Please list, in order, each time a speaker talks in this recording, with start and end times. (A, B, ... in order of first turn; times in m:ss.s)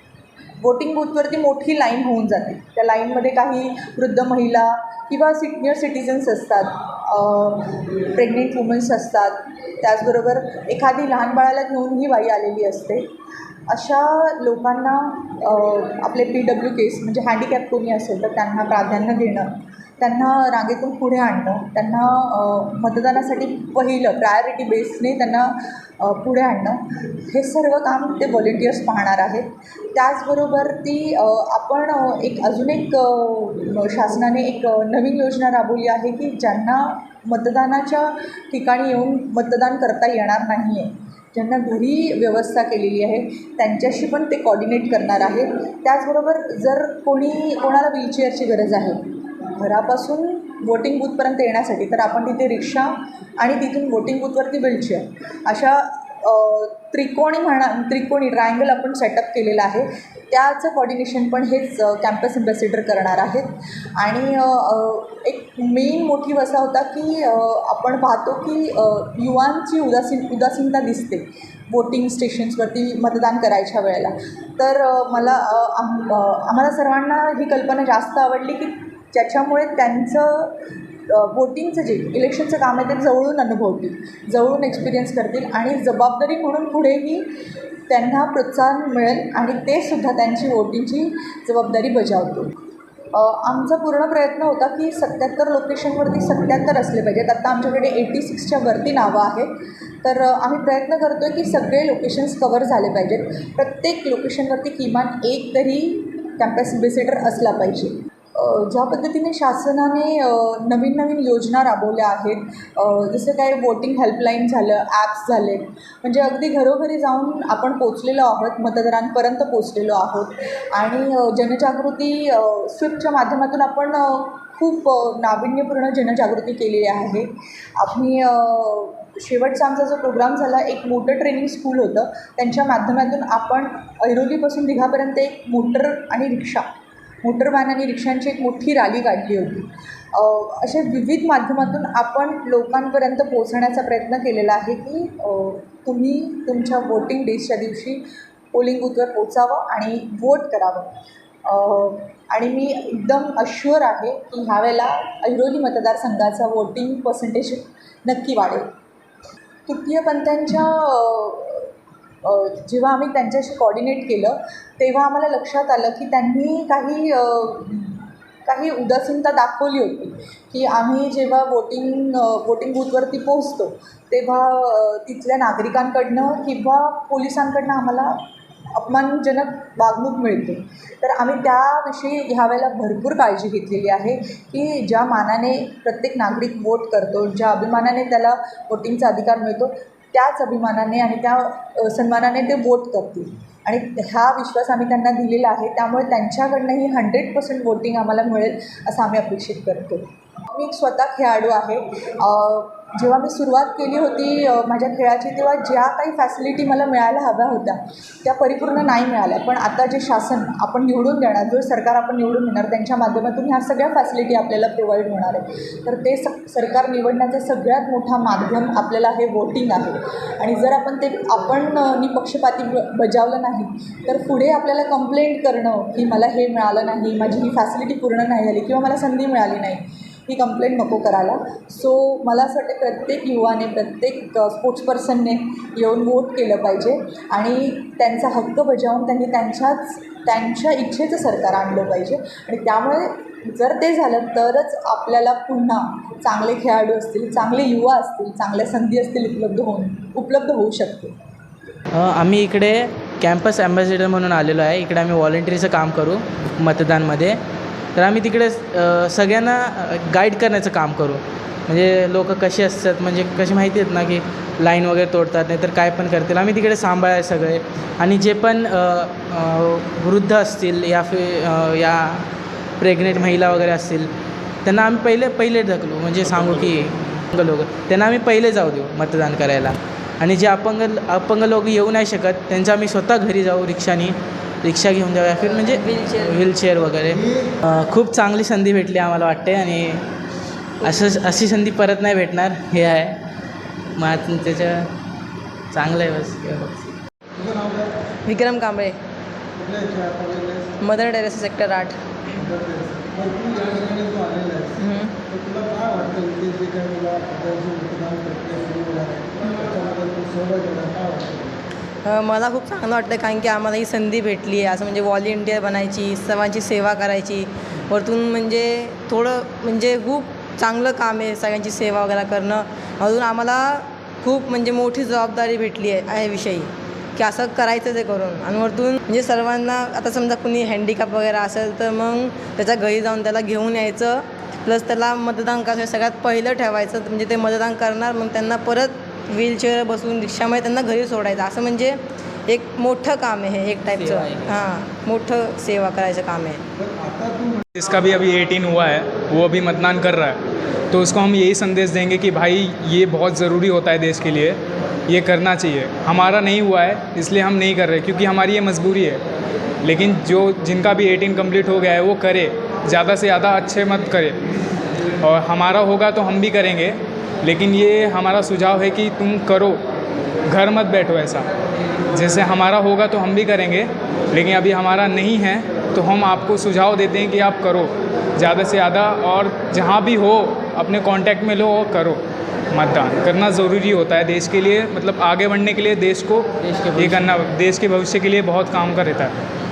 0:00.6-0:13.1 A
0:13.7-1:27.2 A
1:27.9-1:32.5 A
1:33.1-2:16.7 A
2:17.2-2:30.9 A
2:31.4-2:38.7 A
2:39.7-2:58.2 A
2:58.7-4:11.1 A
4:11.9-4:17.4 B
4:17.9-4:32.3 B
4:32.8-4:34.1 B
4:34.6-4:50.0 B
4:45.6-4:46.4 C
4:47.1-4:47.6 D
4:50.8-4:53.2 B
4:54.0-4:54.9 B
4:55.7-4:57.0 B
4:57.4-4:57.9 D
4:58.2-4:59.0 C
4:59.6-5:00.8 D
5:00.8-5:02.0 C
5:02.4-5:11.6 D
5:04.8-5:05.1 C
5:12.0-5:46.6 C
5:43.9-5:44.6 B
5:46.8-5:47.6 D
5:47.8-5:50.4 E
5:50.9-5:59.2 E
5:59.8-6:04.4 E
6:05.2-6:09.8 E
6:10.5-6:11.5 E
6:12.1-6:22.2 E
6:22.7-6:29.3 E
6:26.6-6:27.3 B